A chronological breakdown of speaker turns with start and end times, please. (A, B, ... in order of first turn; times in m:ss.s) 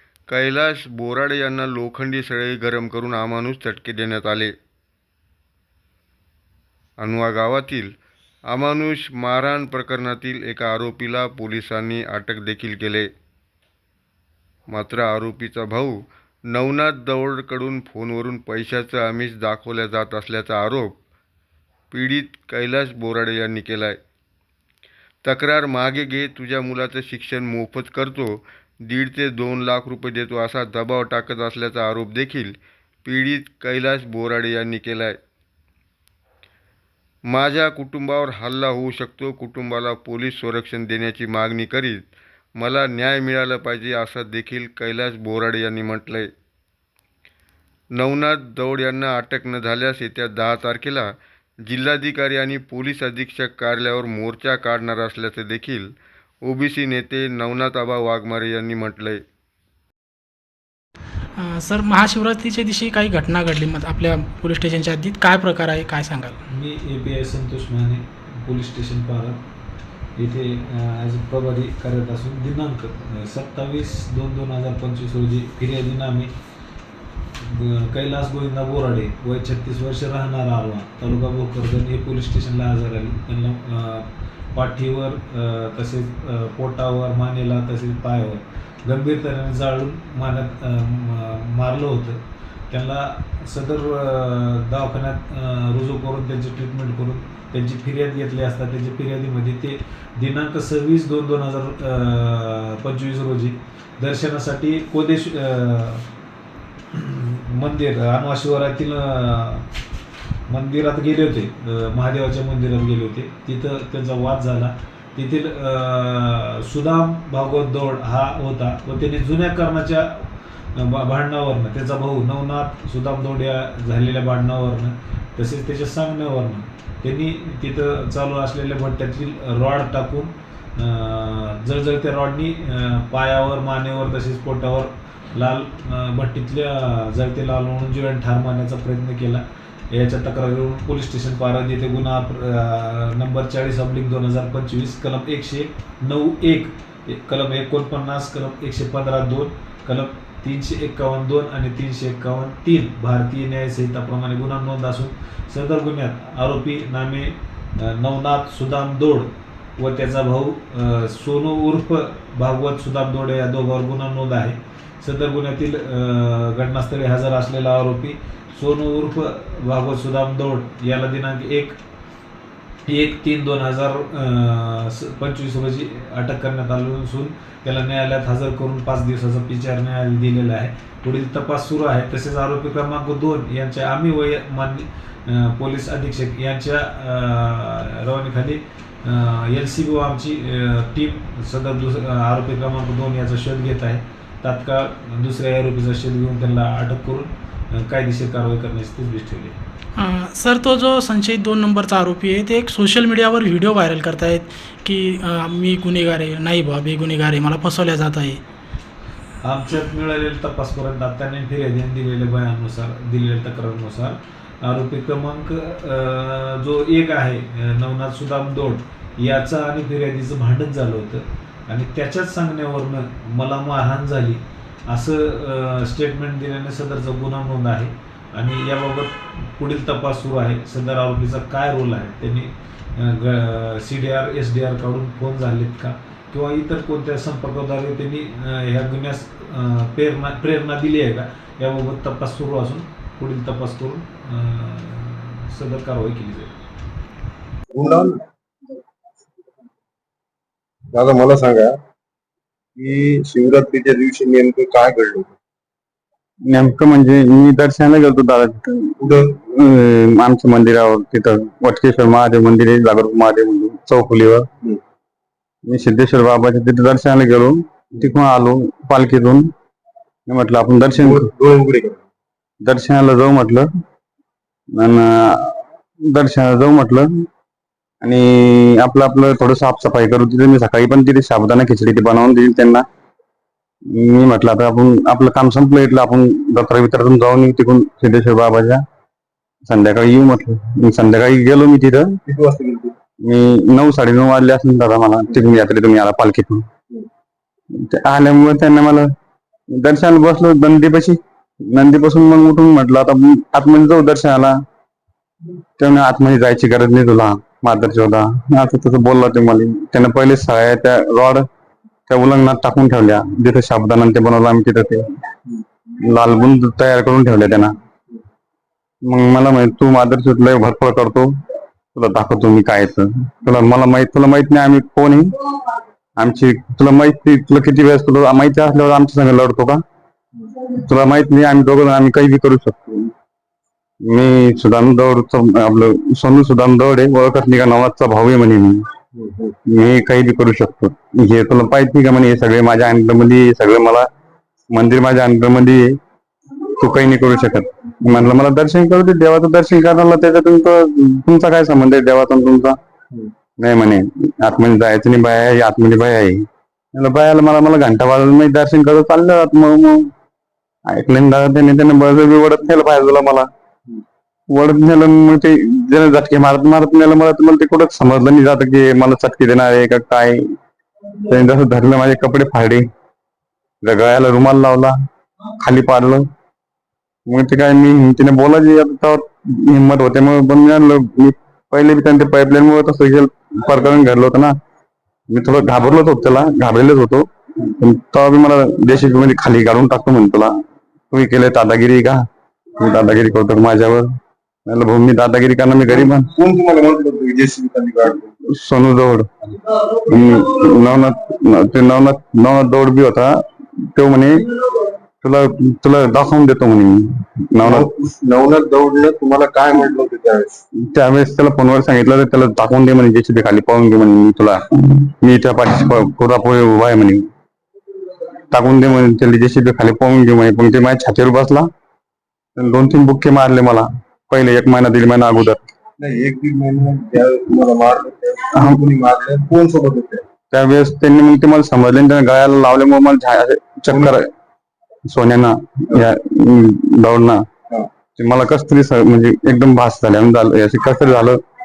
0:00.3-0:04.5 A
0:07.0-0:07.9 A
0:08.5-0:13.1 A
0:14.7-0:21.0 A
0:21.9-0:24.0 A
0:25.2-0:35.2 A
0:37.3-0:46.3 A
0:48.0-0:51.1 A
0:51.6-0:55.9 A
0:56.4-0:59.2 A
1:01.4-1:06.4 B
1:06.5-1:09.4 C
1:10.2-1:16.3 C
1:17.4-1:46.1 C
1:46.9-1:49.7 C
1:50.5-2:51.8 C
2:52.9-3:19.6 C
3:20.0-3:28.4 B
3:29.4-4:06.5 C
4:07.7-4:08.2 D
4:10.9-4:11.7 D
4:12.8-4:15.4 D
4:16.5-4:24.5 E
4:19.0-4:19.4 D
4:25.7-4:29.5 E
4:30.3-4:31.3 E
4:31.0-4:32.0 D
4:32.6-4:33.7 E
4:34.8-4:37.3 E
4:38.0-4:42.9 E
4:43.9-4:48.8 E
4:49.7-4:52.2 E
4:52.3-4:53.0 D
4:53.2-4:56.7 E
4:57.8-4:59.1 E
4:59.7-5:01.2 E
5:01.7-5:04.6 E
5:05.8-5:11.4 E
5:12.1-5:15.0 E
5:16.1-5:17.7 E
5:19.1-5:21.3 E
5:22.0-5:25.3 E
5:26.2-5:29.8 E
5:30.8-5:33.1 E
5:34.1-5:38.8 E
5:39.2-5:39.5 D
5:39.7-5:44.1 E
5:44.7-5:46.0 E
5:46.8-5:52.8 E
5:53.6-5:56.4 E
5:57.0-6:00.1 E
6:00.9-6:03.5 E
6:04.5-6:10.4 E
6:11.3-6:12.9 E
6:13.8-6:15.0 E
6:15.6-6:16.2 E
6:17.3-6:24.6 E
6:25.3-6:27.3 E
6:27.8-6:30.5 E
6:31.1-6:32.2 E
6:32.8-6:34.1 E
6:34.7-6:36.3 E
6:36.3-6:38.3 D
6:38.5-6:39.3 E
6:40.1-6:43.4 E
6:43.9-6:44.4 E
6:45.2-6:47.9 E
6:47.6-6:50.6 D
6:50.8-6:57.3 E
6:58.5-7:01.7 E
7:02.6-7:05.6 E
7:06.0-7:10.2 D
7:10.5-7:14.3 E
7:15.1-7:17.4 E
7:18.2-7:21.4 E